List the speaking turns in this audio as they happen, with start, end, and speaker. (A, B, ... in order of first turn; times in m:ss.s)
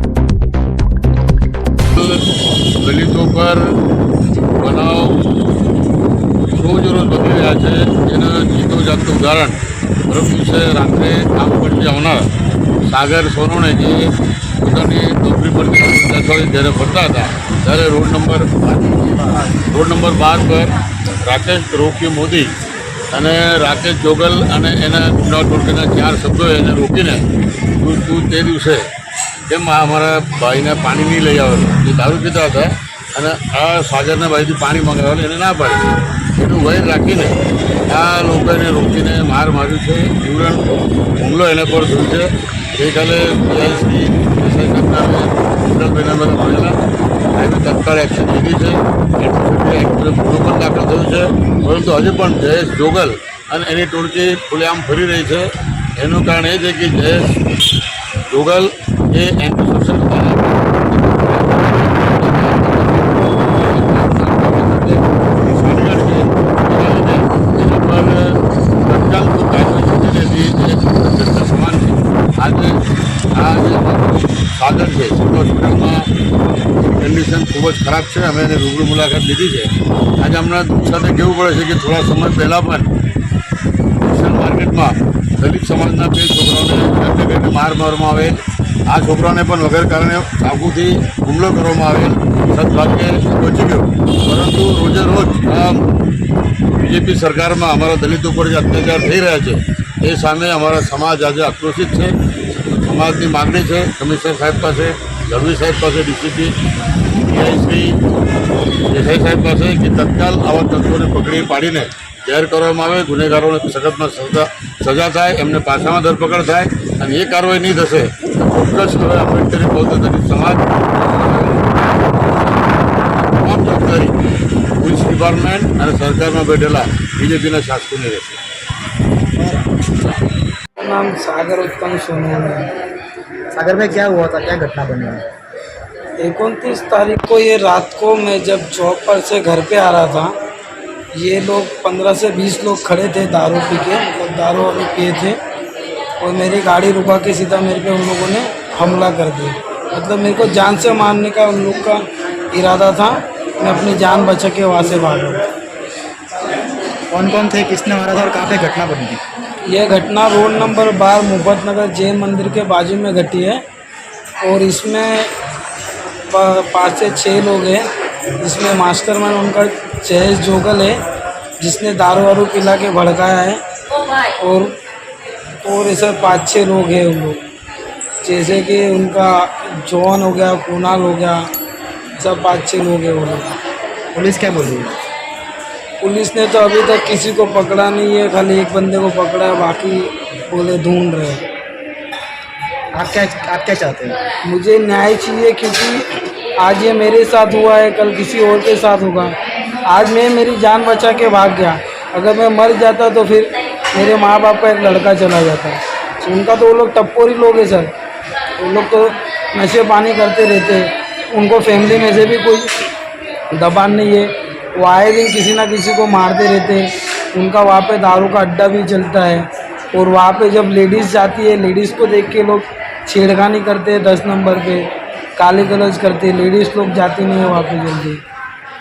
0:02.0-0:02.2 A
0:02.8-0:03.6 A
0:04.6-0:05.2 A
0:06.5-0:12.3 A
0:12.8-0:22.5 A
0:23.1-0:27.2 A
0:27.8-0:28.9 A
0:29.5-0:35.9 A
0:36.4-0:37.4 A
0:37.9-0:46.8 A
0:47.3-0:57.2 A
0:58.3-1:12.8 A
1:13.3-1:16.1 A
1:16.8-1:22.9 A
1:24.0-1:28.4 A
1:28.9-1:35.9 A
1:36.8-1:48.0 A
1:48.9-2:04.2 A
2:04.8-2:08.4 A
2:09.4-2:09.7 B
2:10.8-2:12.6 C
2:13.5-2:15.2 B
2:16.2-2:20.3 C
2:21.2-2:25.3 C
2:26.2-2:32.0 C
2:32.5-2:35.2 C
2:37.1-2:39.2 B
2:39.7-2:43.6 C
2:44.4-2:45.3 C
2:46.3-2:47.8 C
2:48.4-2:51.0 C
2:51.6-2:53.6 C
2:54.4-2:54.8 C
2:55.6-2:57.4 C
2:58.2-3:01.4 C
3:02.2-3:03.4 C
3:04.1-3:05.0 B
3:06.0-3:11.4 C
3:12.9-3:14.2 B
3:14.4-3:16.0 C
3:16.6-3:19.3 C
3:19.9-3:27.9 C
3:28.6-3:32.7 C
3:33.5-3:44.8 C
3:45.4-3:48.2 C